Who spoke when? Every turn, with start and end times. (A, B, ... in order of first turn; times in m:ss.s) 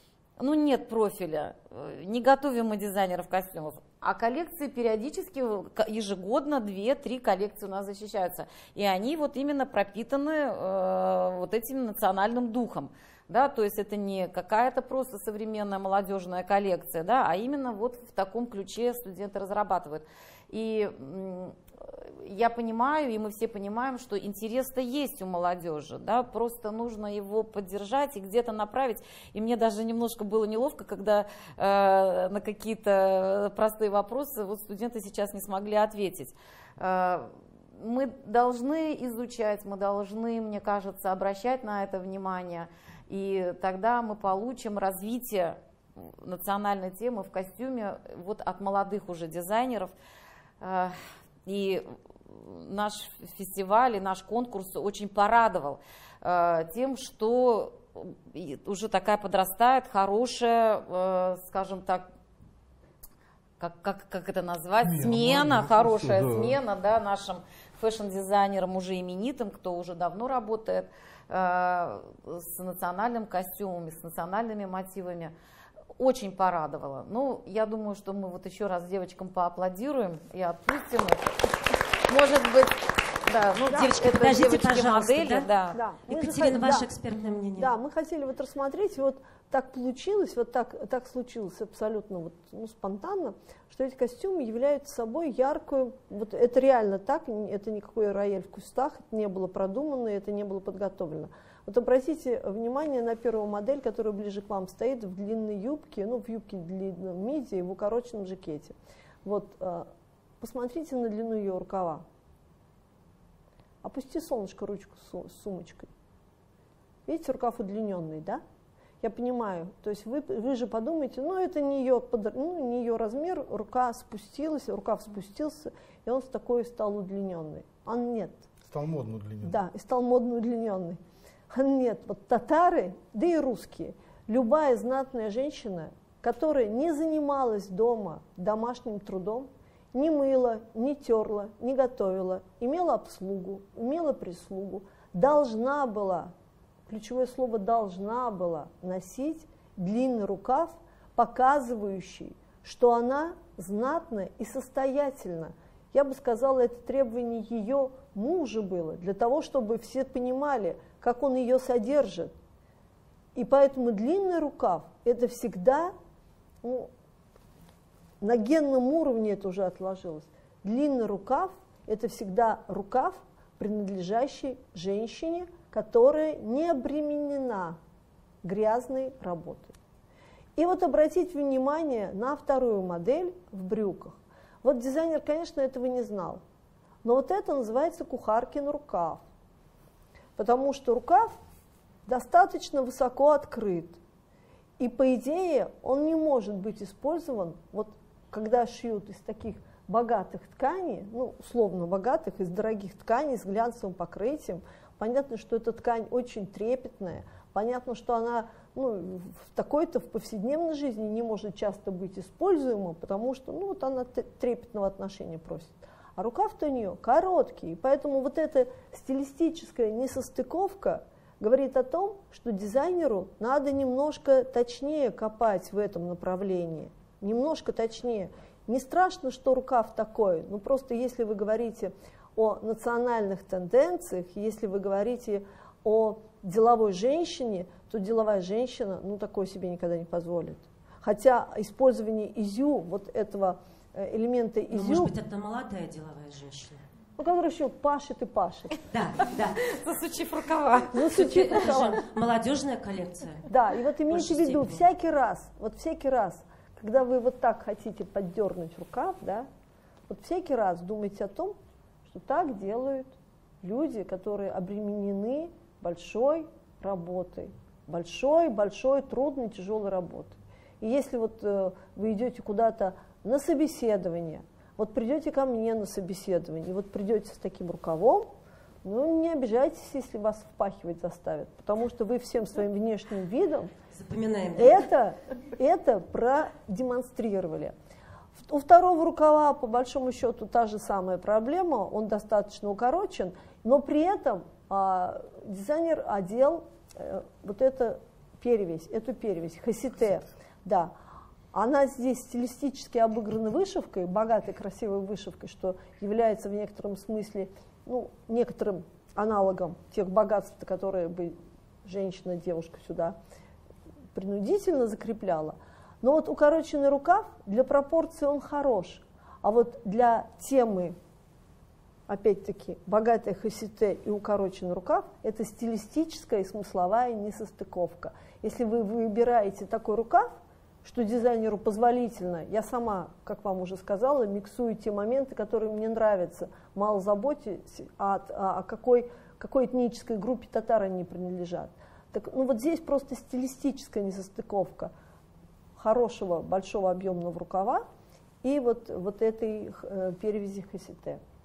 0:00.4-0:49.9 A
0:50.6-1:02.0 A
1:03.6-1:15.3 A
1:04.8-1:06.6 B
1:16.0-1:21.3 A
1:22.1-1:25.8 A
1:23.6-1:25.5 C
1:25.7-1:26.9 D
1:26.1-1:27.7 C
1:27.6-1:49.9 D
1:50.4-1:52.0 D
1:53.8-1:55.9 D
1:57.1-1:58.4 D
1:59.0-2:08.5 D
2:08.6-2:09.6 B
2:09.4-2:26.3 D
2:26.9-2:42.3 D
2:43.3-2:45.9 D
2:46.6-2:46.9 D
2:48.2-2:57.8 D
2:58.4-2:59.7 D
3:00.6-3:06.4 D
3:07.0-3:09.2 D
3:10.4-3:11.4 D
3:12.1-3:14.0 D
3:14.8-4:05.1 D
4:04.7-4:06.8 C
4:07.2-4:08.8 D
4:08.9-4:09.6 C
4:09.6-4:11.1 A
4:10.9-4:12.0 D
4:11.0-4:13.4 C
4:13.5-4:19.5 D
4:14.1-4:14.8 C
4:20.1-4:38.3 D
4:38.8-4:43.7 D
4:43.9-4:44.9 C
4:44.5-4:47.7 D
4:48.4-5:00.9 D
5:01.5-5:13.2 D
5:14.1-5:21.0 D
5:22.1-5:44.9 D
5:45.8-5:47.8 D
5:48.4-5:51.2 D